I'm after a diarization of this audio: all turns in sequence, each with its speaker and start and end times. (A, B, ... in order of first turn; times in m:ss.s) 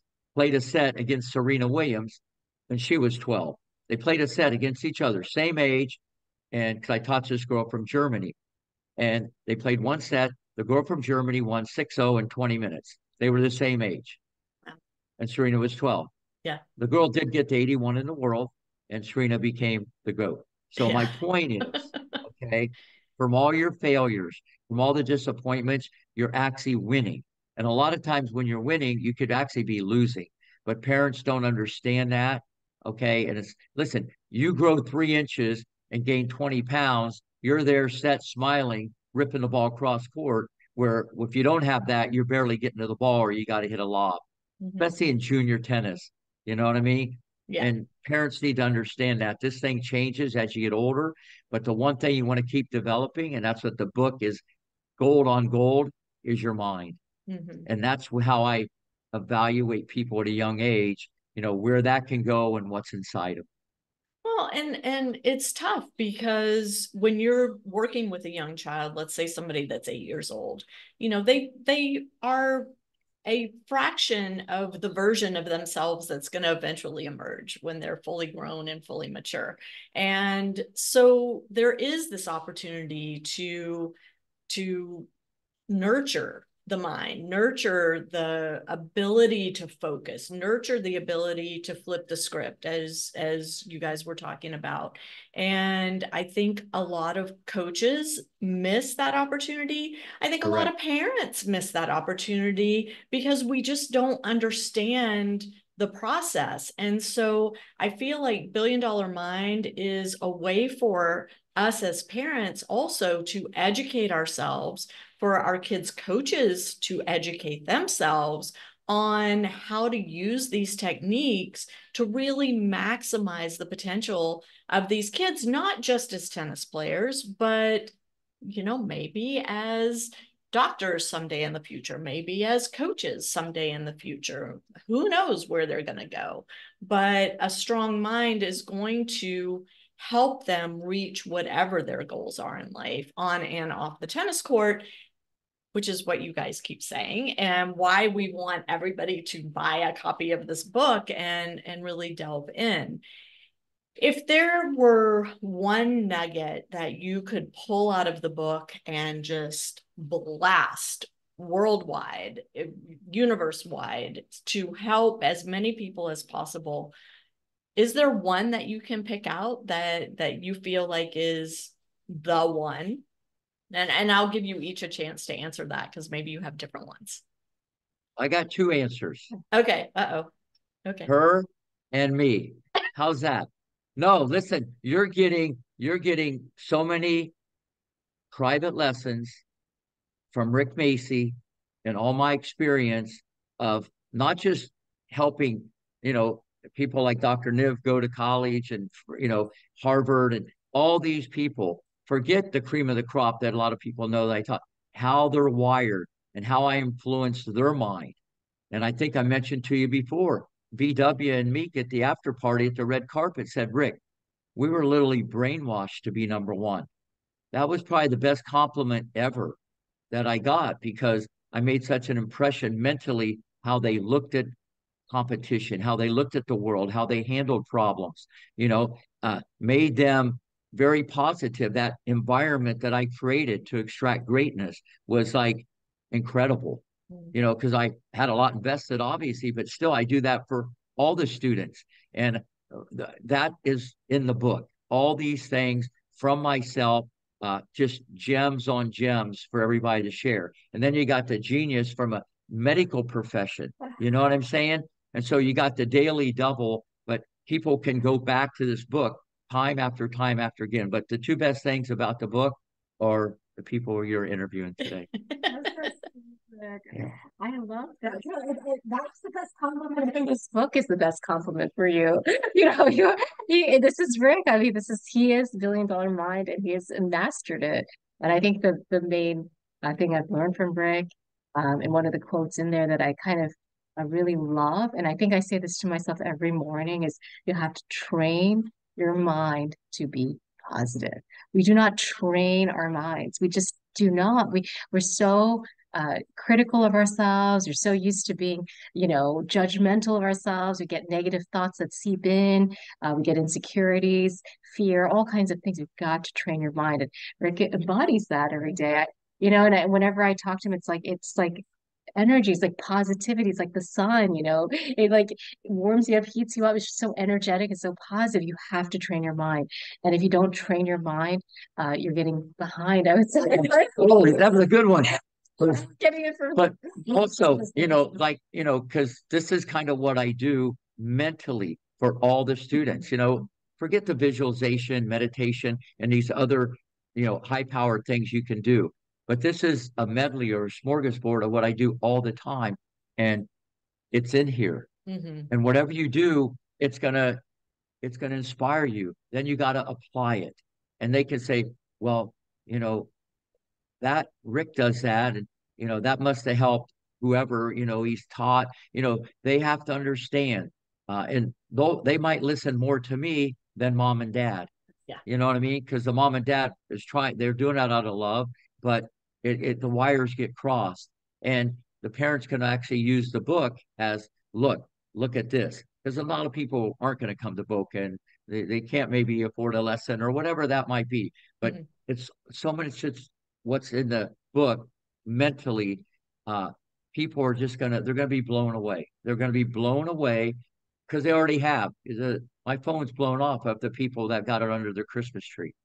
0:00.4-0:06.0 A
0:06.5-0:08.3 A
0:09.0-0:14.2 A
0:15.2-0:16.1 A
0:16.8-0:44.2 A
0:20.8-0:21.2 B
0:21.7-0:22.2 B
0:44.6-0:44.9 B
0:44.8-0:54.4 A
0:55.0-0:57.0 A
0:57.3-0:57.7 B
0:57.7-1:03.5 A
1:04.2-1:12.7 B
1:13.2-1:23.9 B
1:24.5-1:25.1 B
1:25.7-2:24.9 B
1:40.4-1:40.7 A
2:25.7-2:33.0 B
2:34.0-2:46.9 B
2:47.8-2:53.0 B
2:53.7-2:57.2 B
2:58.2-2:59.3 A
2:59.5-3:00.3 B
3:01.1-3:07.3 A
3:08.3-3:09.4 A
3:10.3-3:28.2 A
3:28.7-3:34.0 A
3:34.6-3:36.9 A
3:37.5-3:39.6 A
3:40.1-3:44.5 A
3:45.1-4:25.1 A
4:25.5-5:11.6 C
5:12.2-5:24.6 C
5:23.6-5:25.8 A
5:25.6-5:28.2 C
5:26.6-5:43.5 A
5:44.1-5:44.9 A
5:45.1-5:45.5 B
5:45.5-5:47.4 A
5:48.0-5:53.1 A
5:54.0-6:04.7 A
6:05.2-6:30.6 A
6:31.1-6:35.7 A